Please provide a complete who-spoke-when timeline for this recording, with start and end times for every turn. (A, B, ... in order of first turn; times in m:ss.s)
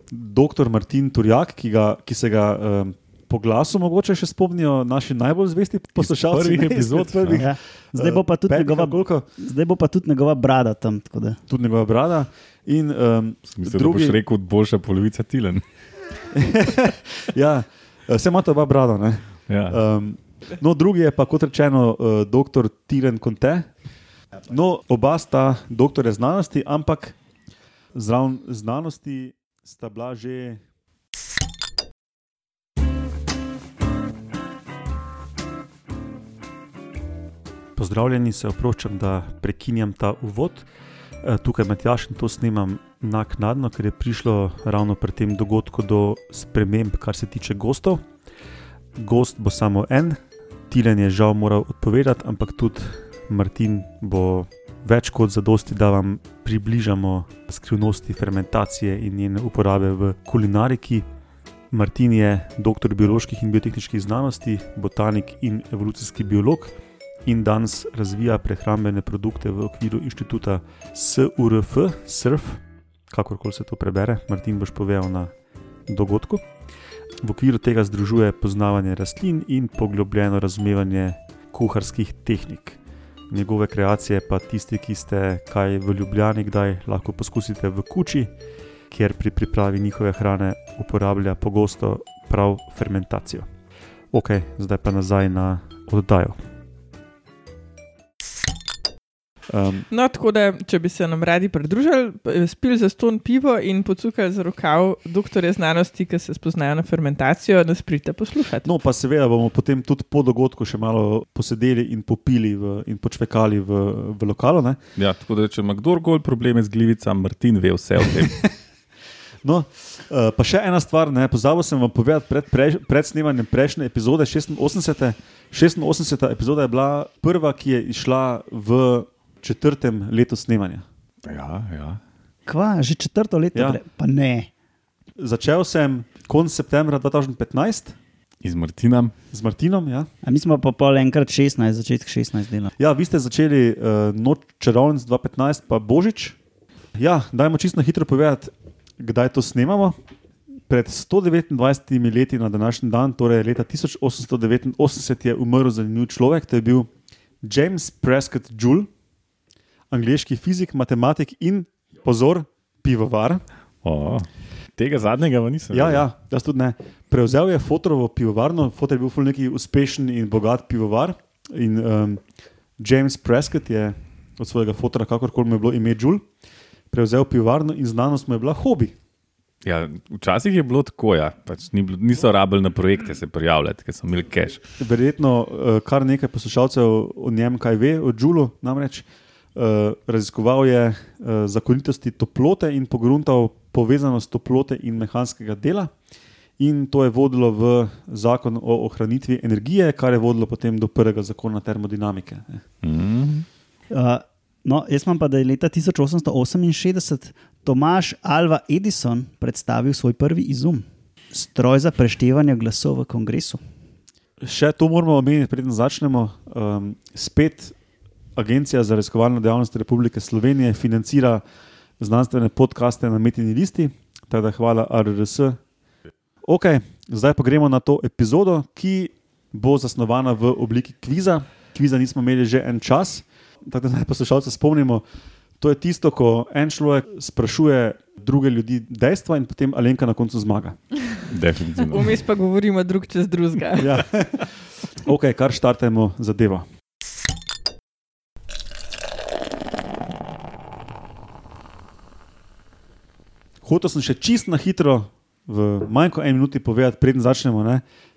0:00.1-0:09.3 A
0:06.0-0:07.5 B
0:07.4-0:11.4 C
0:11.5-0:14.2 A
0:13.5-0:15.6 B
0:16.3-0:23.7 A
0:19.5-0:19.8 B
0:24.5-0:27.2 A
0:28.0-0:30.6 A
0:37.8-0:40.7 A
0:41.2-0:48.0 A
0:49.0-0:50.2 A
0:50.7-1:01.0 A
1:01.7-1:06.7 A
1:07.3-1:15.3 A
1:15.9-1:16.4 A
1:17.2-1:22.8 A
1:23.3-1:28.3 A
1:28.9-1:33.5 A
1:34.1-1:36.4 A
1:39.5-1:39.9 A
1:39.9-1:48.7 D
1:48.6-1:54.8 A
1:55.0-1:58.4 B
1:59.4-2:10.8 A
2:11.2-2:12.0 B
2:12.5-2:14.5 C
2:15.2-2:18.0 A
2:18.4-2:19.1 B
2:19.3-2:20.1 A
2:20.2-2:22.7 C
2:22.8-2:26.4 A
2:27.0-2:30.0 A
2:30.7-2:36.9 A
2:37.4-2:38.9 A
2:39.9-2:43.4 A
2:43.8-2:46.0 B
2:45.7-2:52.2 A
2:52.8-2:56.2 A
2:56.9-2:58.9 A
2:59.6-3:04.6 B
3:04.8-3:15.9 A
3:16.6-3:22.6 A
3:22.8-3:23.5 B
3:23.9-3:33.6 C
3:34.4-3:37.7 A
3:38.4-3:41.4 A
3:42.0-3:45.6 A
3:46.4-3:55.0 A
3:55.6-4:00.8 A
4:01.3-4:02.2 B
4:01.9-4:04.0 D
4:03.8-4:06.7 A
4:13.6-4:17.8 A